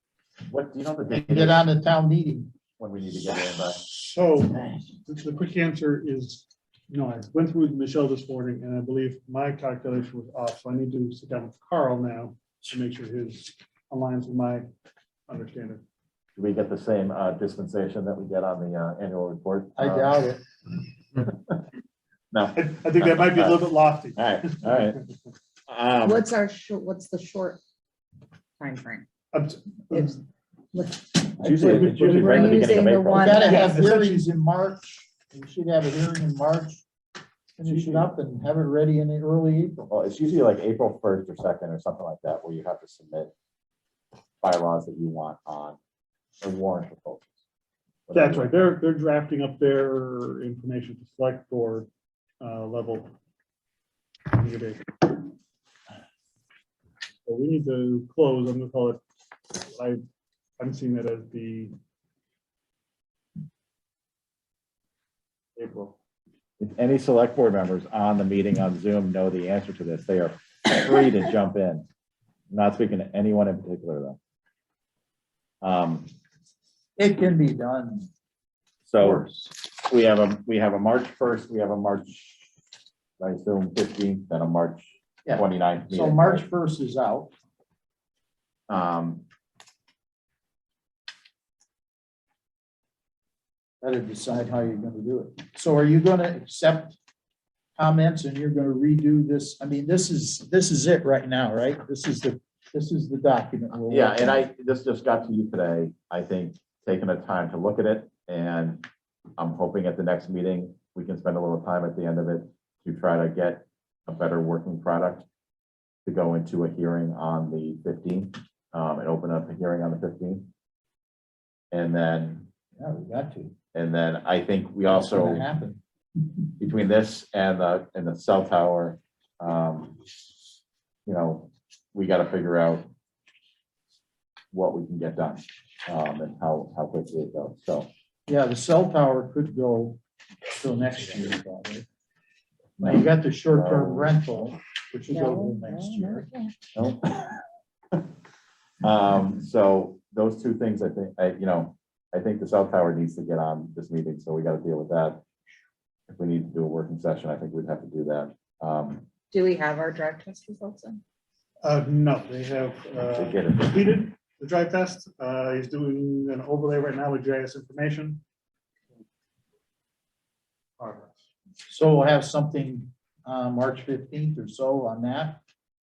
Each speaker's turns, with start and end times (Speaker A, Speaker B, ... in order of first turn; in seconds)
Speaker A: 0.5-1.6, 2.8-3.9, 16.4-20.2, 21.2-21.6, 22.3-25.0, 25.7-26.3, 31.4-33.5, 39.9-43.3, 44.4-45.8, 46.4-47.3, 48.1-48.7, 66.6-71.9, 72.5-74.2, 75.6-76.1, 78.9-82.5, 83.2-86.5, 88.7-89.2, 103.9-108.9, 109.4-115.2, 116.0-120.5, 121.7-122.5, 123.7-125.5, 126.6-130.0, 131.1-132.9, 134.5-137.9, 142.8-144.5, 146.8-147.3, 148.8-155.2, 156.1-159.1, 163.1-164.0
Speaker B: 1.1-2.5, 19.8-20.4, 31.6-32.0, 33.1-36.9, 37.6-39.9, 77.0-78.1, 79.0-79.4, 85.3-87.3, 93.8-97.0, 97.8-104.4, 122.8-123.5, 124.9-125.8, 138.3-140.0, 140.6-141.8, 142.8-146.3, 171.7-175.4
Speaker C: 3.8-14.7, 15.3-15.8, 22.6-25.0, 29.3-30.2, 31.5-32.7, 33.4-34.2, 37.7-38.0, 48.1-51.9, 52.4-53.1, 54.3-55.2, 57.3-59.0, 59.5-60.0, 60.6-61.8, 65.6-66.0, 161.6-168.2, 170.8-171.2
Speaker D: 26.1-27.6, 28.6-29.1, 29.9-30.2, 30.7-34.0, 145.1-146.6, 159.3-161.0